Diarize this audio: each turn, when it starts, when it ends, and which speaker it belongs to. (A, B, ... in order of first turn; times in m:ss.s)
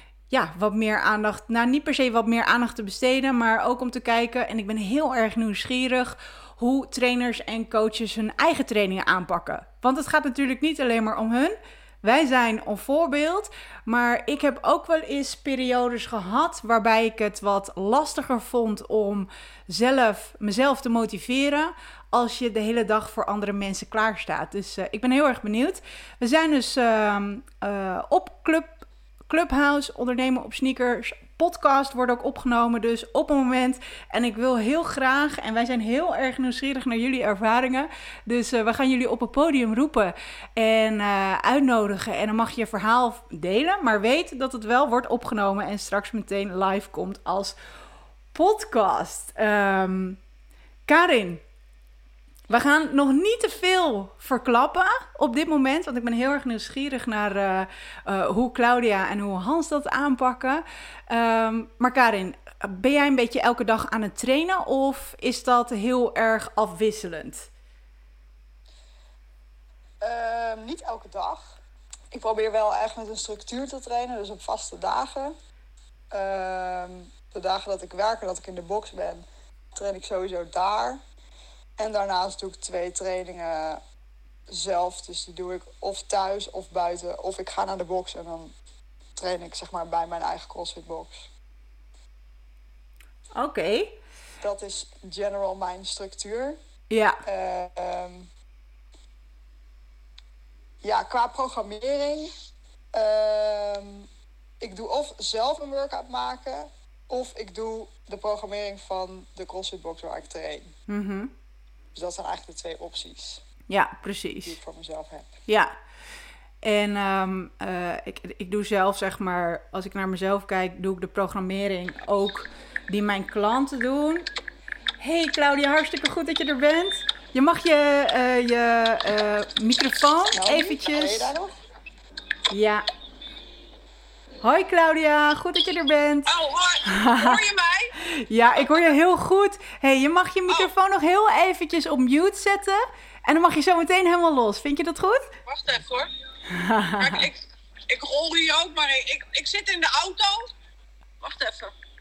0:00.3-0:47.6 A
0:48.3-0:50.2 A
0:50.9-0:51.4 A
0:52.5-1:07.5 A
1:10.0-1:11.6 B
1:12.1-1:15.3 B
1:16.1-1:21.0 B
1:21.8-1:23.8 B
1:24.5-1:28.5 B
1:29.2-1:31.3 B
1:33.4-1:34.0 A
1:34.4-1:36.6 B
1:36.9-1:37.2 A
1:37.2-1:38.3 B
1:40.8-1:42.3 B
1:42.9-1:44.1 B
1:44.6-1:50.7 B
1:50.9-1:51.3 A
1:51.9-1:53.4 B
1:53.7-1:54.6 A
1:54.4-1:55.3 B
1:55.5-1:55.7 A
1:56.6-2:04.3 A
2:05.0-2:11.3 A
2:10.3-2:11.5 B
2:12.5-2:12.8 A
2:14.4-2:17.4 A
2:16.3-2:17.9 C
2:18.0-2:25.3 A
2:18.6-2:18.9 C
2:25.4-2:26.1 C
2:26.5-2:27.2 A
2:27.0-2:30.5 C
2:31.2-2:31.7 C